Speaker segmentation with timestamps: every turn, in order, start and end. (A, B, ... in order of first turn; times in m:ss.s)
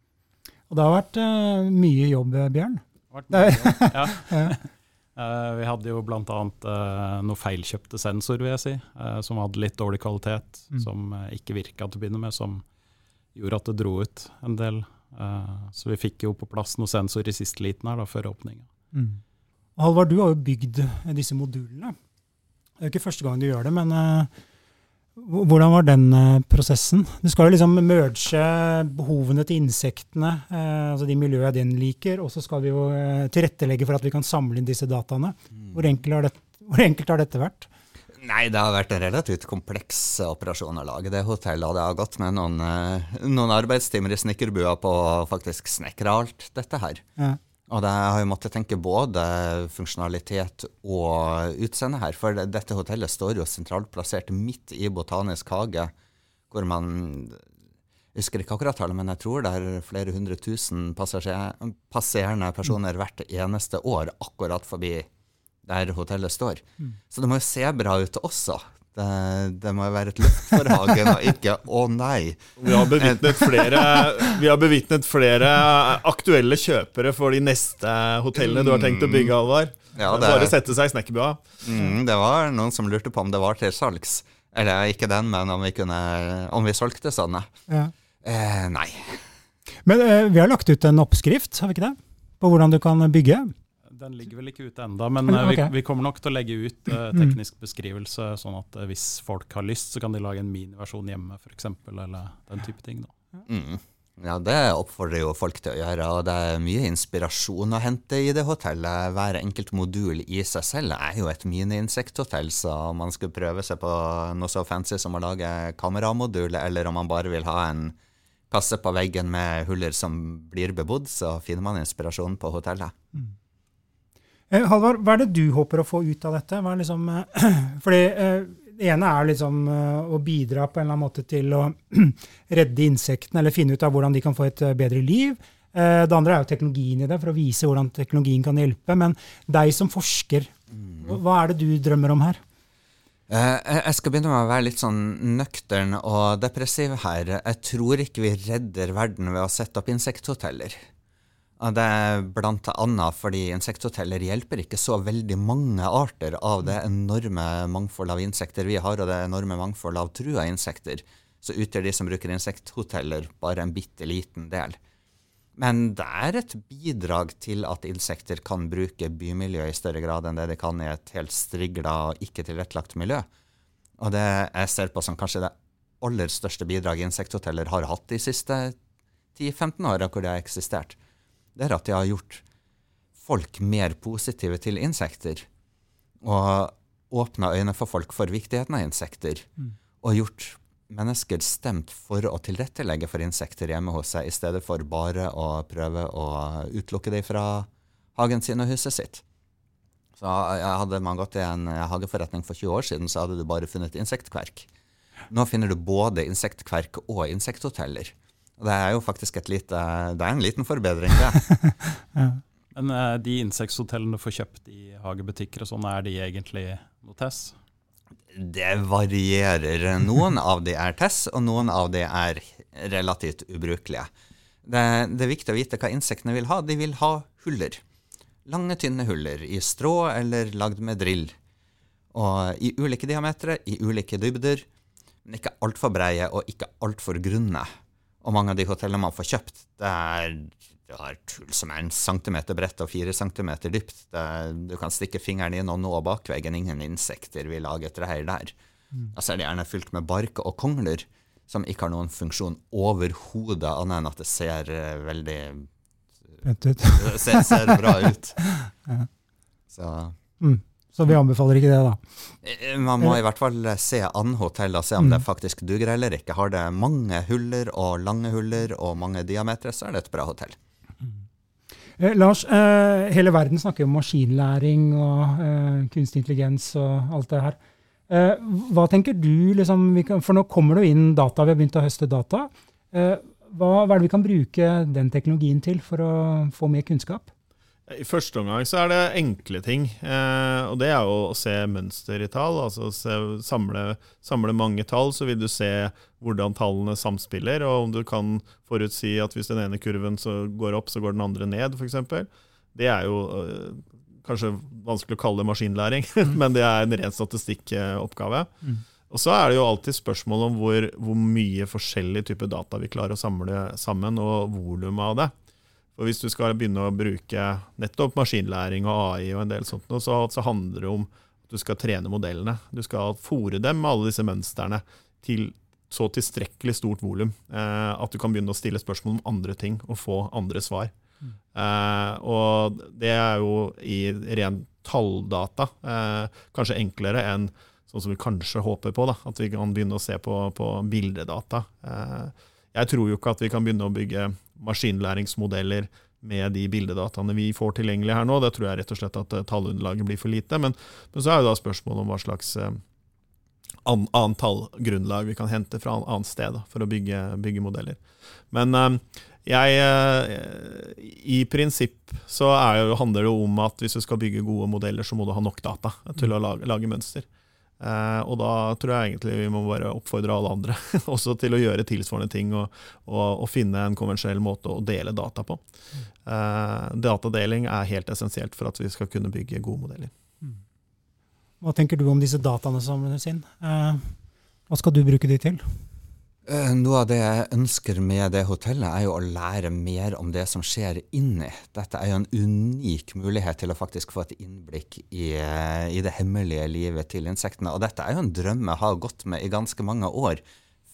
0:00.7-0:04.5 A
0:03.1-0:12.6 B
0:13.4-0:18.7 B
0:18.9-0:19.2 A
0:19.8-0:21.9 A
0:22.8-0:24.3 A
0:25.2-0:37.7 A
0:38.2-0:47.0 C
0:47.7-0:55.9 C
0:56.5-0:57.4 C
0:58.1-1:05.1 C
1:05.6-1:14.2 C
1:12.6-1:21.5 D
1:18.4-1:19.3 C
1:20.0-1:20.6 C
1:21.6-1:27.5 C
1:28.2-1:29.2 C
1:29.9-1:33.5 A
1:33.9-1:43.1 B
1:35.3-1:35.7 A
1:43.5-1:58.0 C
1:58.5-2:02.9 C
2:04.5-2:22.4 A
2:23.3-2:30.8 C
2:31.6-2:44.8 C
2:45.6-2:53.3 C
2:54.0-2:58.8 C
2:59.4-3:01.0 C
3:01.6-3:02.4 C
3:03.2-3:05.5 C
3:06.2-3:09.5 C
3:10.0-3:19.2 C
3:20.2-3:24.7 C
3:25.3-3:31.4 C
3:32.8-3:37.6 B
3:38.3-3:44.1 C
3:44.6-3:47.8 C
3:48.5-3:51.4 C
3:52.1-3:54.6 C
3:55.2-3:57.7 C
3:58.2-4:08.5 C
4:09.1-4:15.7 C
4:16.4-4:17.8 A
4:17.0-4:18.4 C
4:18.4-4:19.1 A
4:19.7-4:20.2 C
4:20.4-4:22.0 A
4:22.4-4:30.6 C
4:32.0-4:37.6 A
4:38.1-4:47.3 A
4:47.9-5:08.5 D
5:09.1-5:15.3 D
5:16.0-5:30.9 D
5:31.5-5:52.8 D
5:53.8-6:07.3 D
6:07.8-6:15.6 D
6:16.2-6:20.1 D
6:21.6-6:24.1 A
6:24.7-6:25.6 A
6:26.5-6:40.4 C